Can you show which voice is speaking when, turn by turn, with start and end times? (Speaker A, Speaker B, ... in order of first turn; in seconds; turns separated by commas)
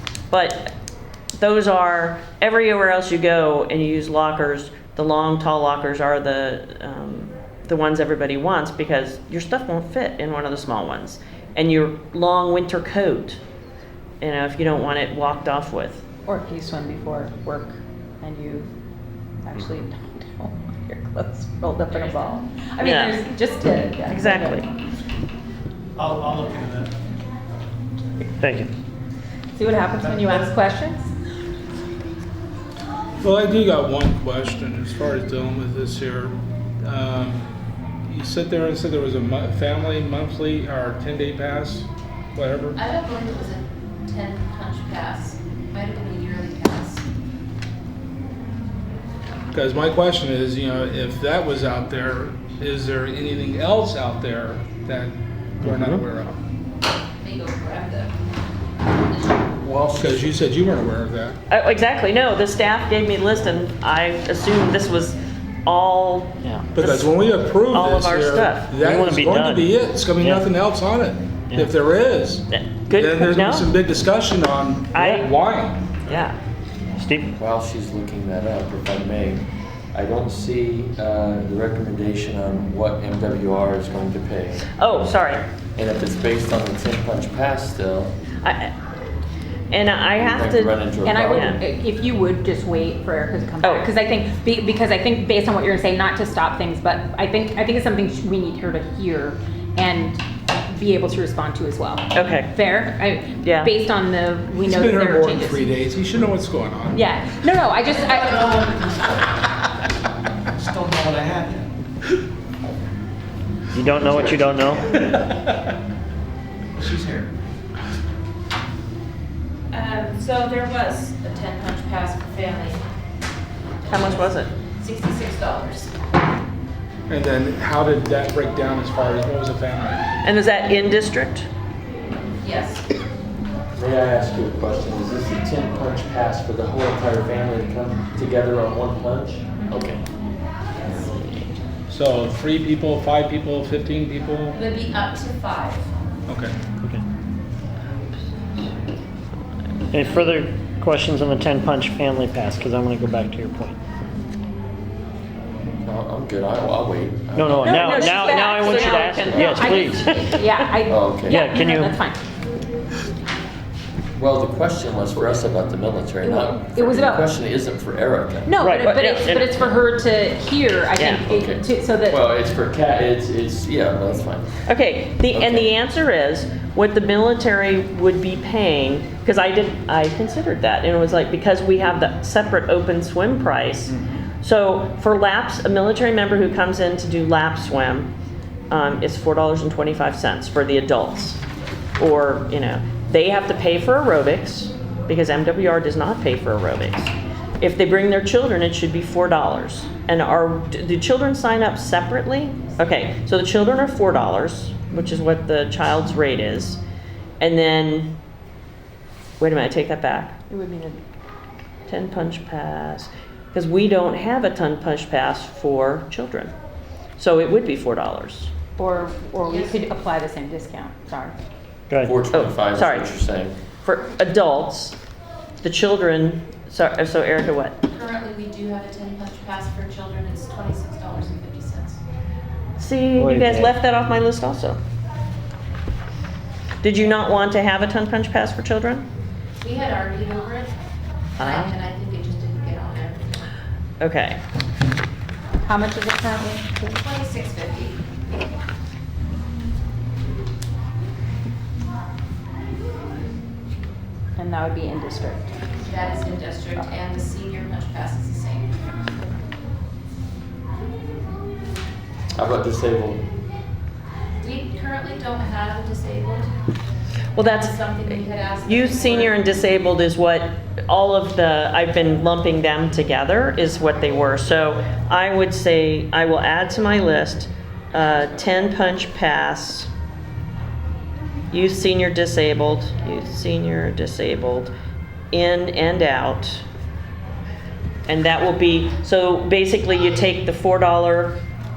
Speaker A: 0.3-0.7, Speaker A: 1.4-13.4, Speaker A: 14.2-16.1, Speaker B: 16.2-18.7, Speaker B: 19.4-24.7, Speaker C: 22.0-22.3, Speaker A: 22.8-23.2, Speaker A: 24.1-24.7, Speaker D: 26.0-26.9, Speaker E: 28.4-28.7, Speaker B: 29.5-31.1, Speaker D: 30.0-30.5, Speaker F: 33.2-37.4, Speaker F: 38.1-42.8, Speaker C: 42.8-47.0, Speaker F: 49.5-56.4, Speaker C: 57.2-58.1, Speaker G: 59.6-60.3, Speaker F: 60.0-61.4, Speaker A: 61.5-67.1, Speaker E: 66.4-66.7, Speaker F: 66.8-76.0, Speaker A: 67.7-68.9, Speaker E: 68.8-70.5, Speaker A: 72.5-73.7, Speaker A: 74.9-75.2, Speaker A: 76.1-76.4, Speaker E: 77.0-77.3, Speaker G: 77.4-84.7, Speaker A: 84.8-85.5, Speaker G: 85.8-88.1, Speaker A: 88.4-88.7, Speaker A: 89.7-91.6, Speaker G: 90.2-91.5, Speaker B: 91.0-105.8, Speaker A: 93.6-93.9, Speaker A: 102.1-102.6, Speaker A: 103.4-103.8, Speaker F: 104.6-107.1, Speaker B: 106.9-108.5, Speaker D: 108.2-109.1, Speaker D: 110.5-111.7, Speaker E: 113.7-114.9, Speaker D: 116.8-117.3, Speaker C: 119.7-122.8, Speaker C: 123.8-125.9, Speaker A: 123.9-124.5, Speaker F: 127.1-130.1, Speaker A: 130.2-131.5, Speaker C: 132.4-132.8, Speaker G: 133.8-140.0, Speaker A: 141.1-141.5, Speaker F: 141.9-144.6, Speaker C: 144.5-145.9, Speaker F: 146.3-146.6, Speaker E: 149.9-153.8, Speaker G: 155.8-158.0, Speaker E: 157.3-160.1, Speaker A: 157.7-160.8, Speaker B: 157.7-162.2, Speaker G: 159.2-159.7, Speaker G: 160.9-161.5, Speaker E: 161.3-162.0, Speaker G: 164.2-168.6, Speaker B: 166.2-167.3, Speaker B: 168.5-172.2, Speaker E: 168.6-168.9, Speaker A: 168.8-169.7, Speaker A: 171.0-171.2, Speaker G: 171.3-174.6, Speaker A: 174.7-188.1, Speaker G: 175.3-175.7, Speaker A: 188.7-191.4, Speaker A: 192.0-206.8, Speaker A: 207.4-208.2, Speaker A: 209.4-210.4, Speaker B: 210.5-211.0, Speaker A: 211.9-216.5, Speaker A: 217.2-218.5, Speaker B: 218.8-221.4, Speaker C: 219.4-219.8, Speaker E: 221.9-222.2, Speaker G: 222.0-223.6, Speaker A: 222.3-223.2, Speaker A: 223.8-225.0, Speaker A: 225.6-227.8, Speaker C: 227.9-232.0, Speaker A: 232.8-234.8, Speaker E: 233.2-233.8, Speaker A: 236.8-239.1, Speaker C: 239.6-240.7, Speaker C: 241.4-243.5, Speaker A: 241.4-241.7, Speaker A: 244.0-244.4, Speaker B: 245.6-246.9, Speaker C: 246.8-248.0, Speaker B: 254.4-255.6, Speaker C: 255.8-258.7, Speaker G: 262.4-263.2, Speaker C: 264.4-266.5, Speaker A: 267.4-279.9, Speaker C: 267.4-269.4, Speaker A: 281.5-284.7, Speaker A: 285.3-286.6, Speaker A: 288.1-291.4